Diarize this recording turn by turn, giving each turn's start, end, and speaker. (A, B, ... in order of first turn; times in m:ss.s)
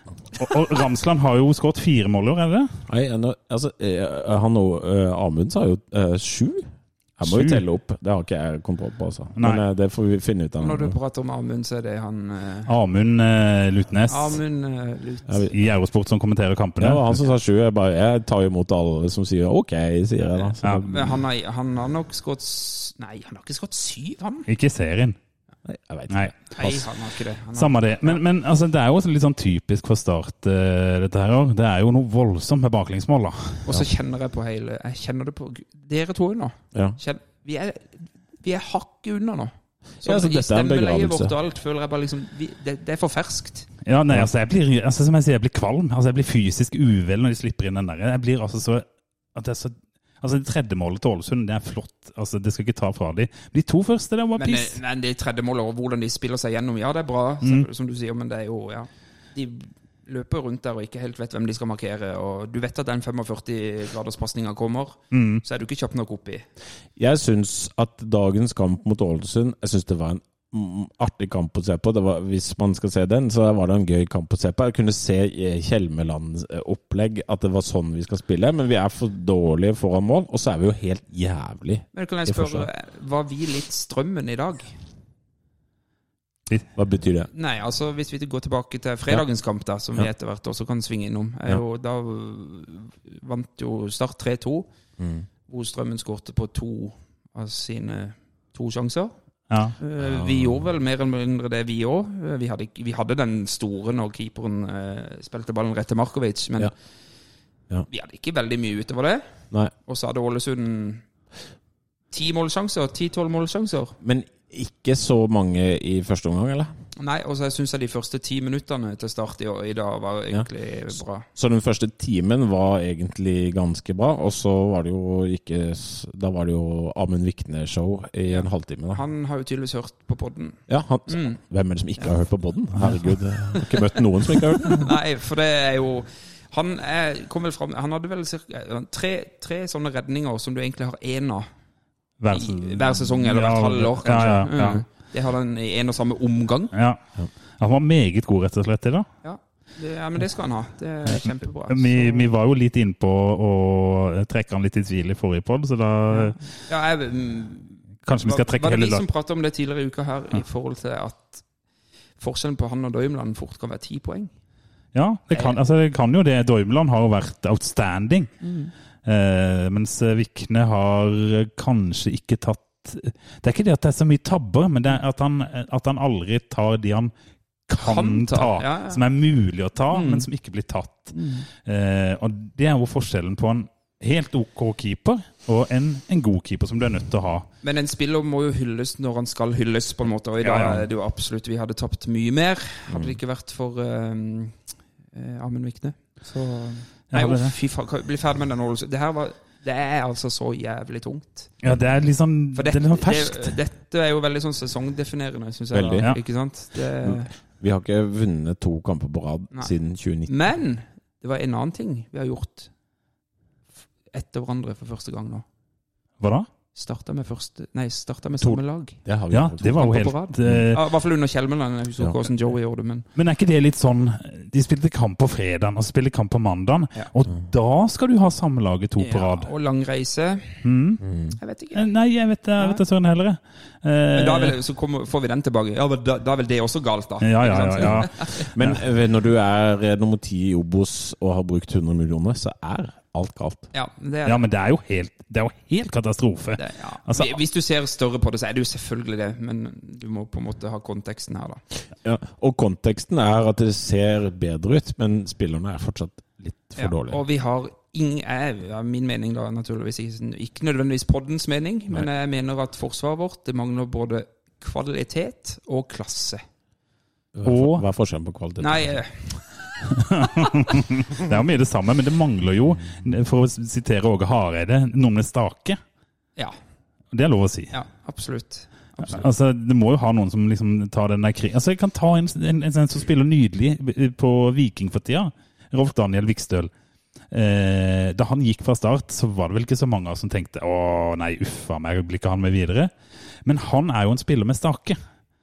0:00.4-0:02.7 A
0:02.9-0:11.0 B
0:07.2-0:07.6 A
0:10.6-0:12.7 C
0:12.7-0:14.4 A
0:14.1-0:15.5 C
0:15.3-0:15.5 B
0:15.5-0:17.0 A
0:16.8-0:21.2 B
0:20.8-0:24.5 C
0:24.5-0:25.2 A
0:25.6-0:26.9 B
0:26.6-0:28.2 C
0:27.6-0:33.6 A
0:33.6-0:43.7 C
0:40.0-0:41.3 B
0:43.8-0:54.8 A
0:54.4-1:06.4 C
1:05.1-1:05.4 A
1:07.0-1:22.7 B
1:21.9-1:24.8 C
1:26.7-1:27.3 B
1:27.3-1:34.7 C
1:35.0-1:35.2 B
1:35.5-1:39.1 C
1:39.5-1:39.8 A
1:39.8-1:46.7 C
1:40.0-1:40.6 B
1:47.9-1:49.2 C
1:49.8-1:51.0 C
1:52.1-1:54.0 C
1:54.0-1:56.7 B
1:57.0-2:01.2 C
2:01.3-2:09.0 B
2:08.3-2:11.4 C
2:10.7-2:14.9 B
2:13.5-2:14.0 C
2:14.6-2:21.4 C
2:22.2-2:24.8 A
2:22.3-2:26.7 C
2:26.7-2:27.0 A
2:27.6-2:29.1 A
2:29.2-2:32.3 C
2:31.0-2:36.4 A
2:36.1-2:41.4 C
2:38.0-2:39.0 A
2:42.2-2:44.3 C
2:44.9-2:48.3 A
2:45.3-2:45.6 C
2:48.4-2:48.7 C
2:49.0-2:57.1 A
2:57.7-3:07.5 A
2:57.8-2:59.0 C
2:59.9-3:00.2 C
3:01.1-3:01.4 C
3:07.6-3:14.6 C
3:10.4-3:10.8 A
3:12.9-3:13.2 B
3:15.1-3:21.5 C
3:17.1-3:17.5 A
3:21.6-3:23.5 A
3:22.5-3:27.3 C
3:25.7-3:26.1 B
3:27.0-3:30.3 B
3:30.3-3:32.7 C
3:34.1-3:35.4 C
3:36.2-3:36.5 A
3:36.7-3:39.0 C
3:38.4-3:39.9 B
3:39.3-3:40.8 A
3:39.7-3:43.0 C
3:43.1-3:49.5 A
3:49.0-3:50.6 C
3:50.6-3:51.0 A
3:51.0-3:51.3 B
3:51.4-3:51.9 C
3:51.7-3:54.6 A
3:54.1-3:58.4 C
3:57.2-3:58.8 A
3:57.8-4:03.7 B
4:03.7-4:04.4 C
4:04.2-4:07.4 A
4:06.6-4:11.6 C
4:12.0-4:17.2 B
4:16.8-4:26.4 C
4:27.3-4:29.0 B
4:27.4-4:27.8 A
4:28.6-4:29.4 C
4:29.9-4:35.8 A
4:37.1-4:37.7 A
4:37.7-4:39.2 C
4:39.0-4:46.7 A
4:47.3-4:52.9 A
4:53.4-4:55.0 A